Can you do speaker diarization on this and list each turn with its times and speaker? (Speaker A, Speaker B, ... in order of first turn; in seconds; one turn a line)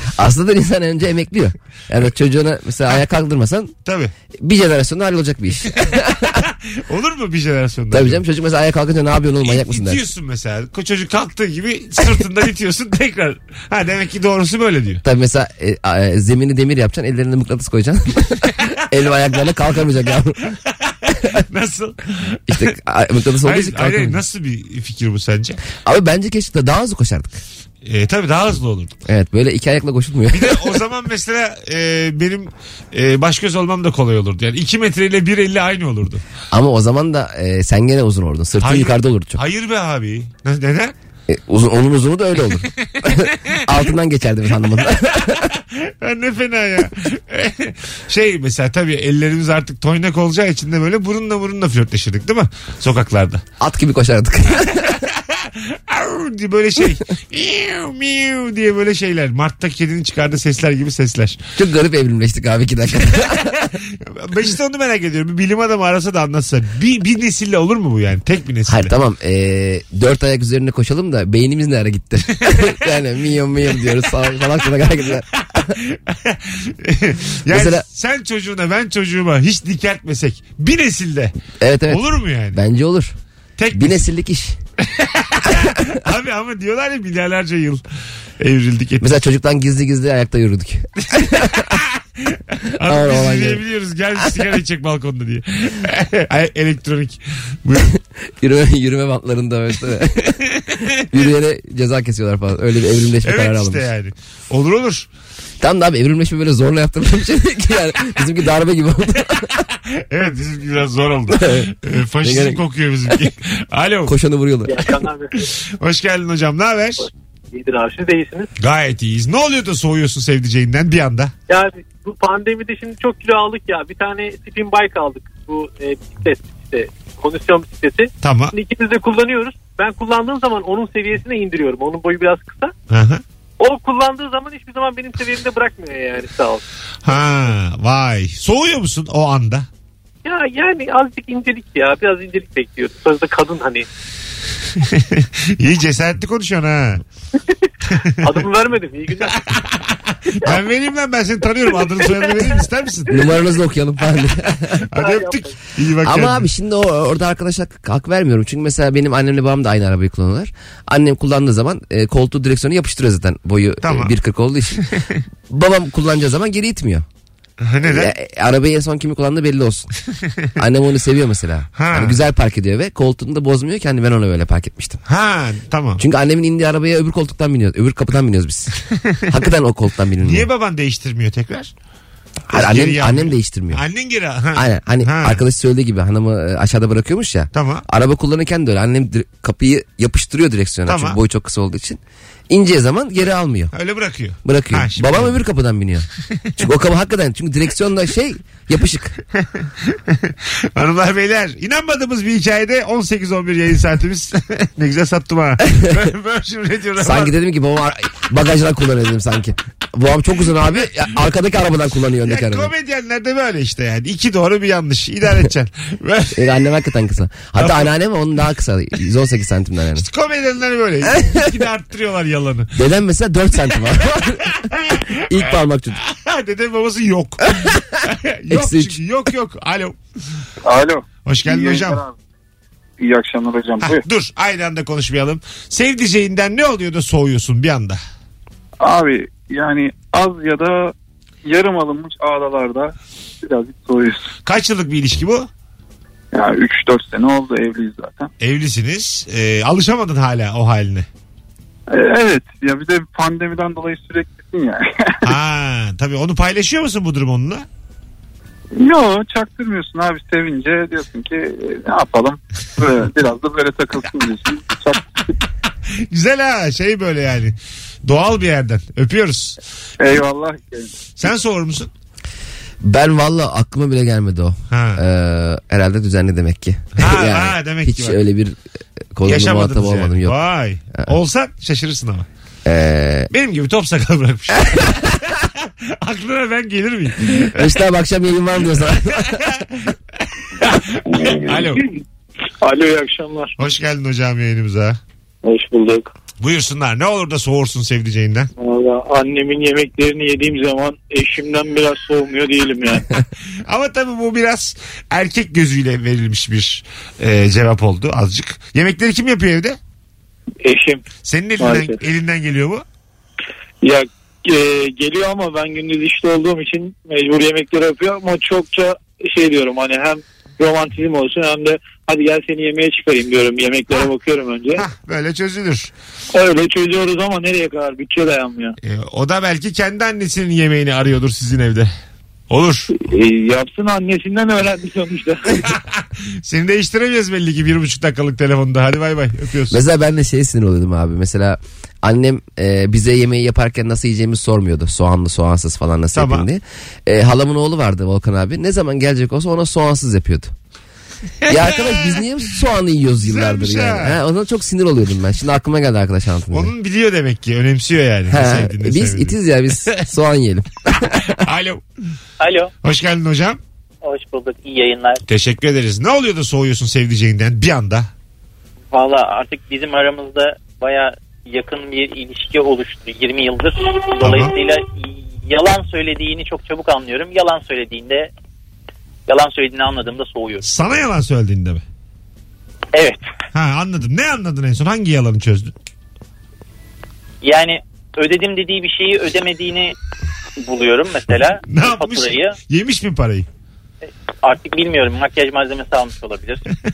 Speaker A: 0.2-3.7
Speaker B: 3.9-4.1
Speaker A: 4.4-6.4
Speaker B: 5.9-8.2
Speaker A: 7.9-10.0
Speaker B: 9.4-15.0
Speaker A: 15.0-20.4
Speaker B: 20.7-22.7
Speaker A: 22.5-24.2
Speaker B: 23.4-25.6
Speaker A: 25.8-27.4
Speaker B: 27.8-28.9
Speaker A: 29.1-30.8
Speaker B: 30.3-36.2
Speaker A: 36.5-39.4
Speaker B: 38.6-40.9
Speaker A: 41.3-45.5
Speaker B: 45.5-53.4
Speaker A: 53.6-55.0
Speaker B: 54.8-61.4
Speaker A: 61.6-63.6
Speaker B: 63.2-68.9
Speaker A: 68.7-75.6
Speaker B: 75.6-81.3
Speaker A: 77.5-77.8
Speaker A: 81.6-83.2
Speaker B: 81.9-82.6
Speaker B: 83.6-84.0
Speaker A: 83.8-84.6
Speaker B: 84.8-87.8
Speaker B: 88.4-89.1
Speaker A: 89.0-91.8
Speaker B: 91.1-97.9
Speaker A: 92.8-93.6
Speaker A: 94.2-94.5
Speaker A: 98.4-100.4
Speaker A: 101.1-103.8
Speaker B: 103.2-105.1
Speaker A: 105.6-109.6
Speaker B: 109.9-114.1
Speaker A: 111.3-111.7
Speaker A: 112.2-112.6
Speaker A: 114.1-114.8
Speaker C: 114.7-115.3
Speaker B: 115.8-117.0
Speaker C: 117.0-118.5
Speaker B: 118.6-121.3
Speaker C: 121.5-132.7
Speaker B: 128.2-128.6
Speaker B: 132.9-133.2
Speaker C: 133.6-137.1
Speaker B: 137.1-139.7
Speaker C: 140.2-143.9
Speaker B: 144.8-147.0
Speaker C: 148.2-149.6
Speaker B: 150.4-153.1
Speaker C: 151.7-152.6
Speaker A: 153.1-154.9
Speaker B: 154.8-156.5
Speaker C: 155.0-155.5
Speaker A: 156.0-164.9
Speaker B: 163.8-164.1
Speaker B: 164.9-165.2
Speaker A: 165.5-167.1
Speaker B: 167.6-168.1
Speaker A: 167.9-169.9
Speaker A: 170.6-175.0
Speaker B: 171.8-172.2
Speaker B: 175.1-176.0
Speaker A: 176.0-178.7
Speaker B: 178.9-179.2
Speaker A: 179.3-180.4
Speaker B: 180.2-181.7
Speaker A: 182.5-183.8
Speaker B: 182.5-185.4
Speaker A: 184.6-193.7
Speaker B: 187.5-187.8
Speaker B: 190.9-191.2
Speaker B: 193.7-195.4
Speaker A: 194.4-199.1
Speaker B: 199.4-207.3
Speaker A: 205.7-206.0
Speaker A: 207.0-212.7
Speaker B: 212.3-216.4
Speaker A: 216.3-220.1
Speaker B: 217.6-217.9
Speaker B: 219.9-222.7
Speaker A: 221.2-221.5
Speaker A: 222.8-224.6
Speaker B: 224.2-225.2
Speaker A: 225.3-226.0
Speaker B: 226.0-230.0
Speaker A: 227.5-227.9
Speaker A: 228.5-229.0
Speaker D: 230.7-232.1
Speaker B: 231.2-232.0
Speaker D: 233.0-234.0
Speaker B: 233.8-238.0
Speaker D: 238.8-240.9
Speaker D: 241.4-244.3
Speaker B: 244.4-245.5
Speaker D: 246.3-248.3
Speaker B: 248.4-251.1
Speaker D: 251.9-255.2
Speaker B: 255.2-257.6
Speaker D: 258.8-265.2
Speaker B: 266.1-269.6
Speaker D: 270.0-270.9
Speaker B: 271.1-271.9
Speaker A: 272.8-278.6
Speaker B: 274.7-275.0
Speaker B: 277.0-278.2
Speaker A: 279.1-280.4
Speaker B: 279.2-282.3
Speaker A: 282.6-283.3
Speaker B: 283.3-287.7
Speaker A: 284.6-285.1
Speaker A: 287.3-289.4
Speaker B: 289.2-289.9
Speaker B: 290.6-291.8
Speaker E: 291.2-291.8
Speaker E: 292.6-293.5
Speaker B: 293.6-295.0
Speaker E: 295.4-296.1
Speaker B: 296.4-298.5
Speaker E: 298.6-303.1
Speaker B: 303.7-309.8
Speaker E: 310.6-311.1
Speaker B: 311.2-312.8
Speaker E: 311.6-312.0
Speaker E: 313.8-324.9
Speaker B: 324.7-325.9
Speaker E: 326.3-328.8
Speaker B: 328.8-331.9
Speaker B: 332.5-332.9
Speaker E: 332.9-335.7
Speaker B: 335.7-339.8
Speaker A: 339.7-350.5
Speaker B: 346.1-346.5
Speaker B: 351.4-352.2
Speaker A: 351.5-356.7
Speaker B: 353.2-354.2
Speaker B: 356.5-359.4
Speaker A: 358.3-361.4
Speaker B: 361.3-361.8
Speaker F: 362.4-362.7
Speaker B: 362.8-363.6
Speaker F: 364.0-365.2
Speaker B: 365.3-368.1
Speaker F: 368.9-378.3
Speaker B: 374.2-374.5
Speaker F: 379.3-380.6
Speaker B: 380.6-381.8
Speaker F: 382.9-383.2
Speaker B: 383.5-385.7
Speaker F: 387.4-389.9
Speaker F: 390.6-392.6
Speaker B: 391.7-393.5
Speaker F: 394.4-396.7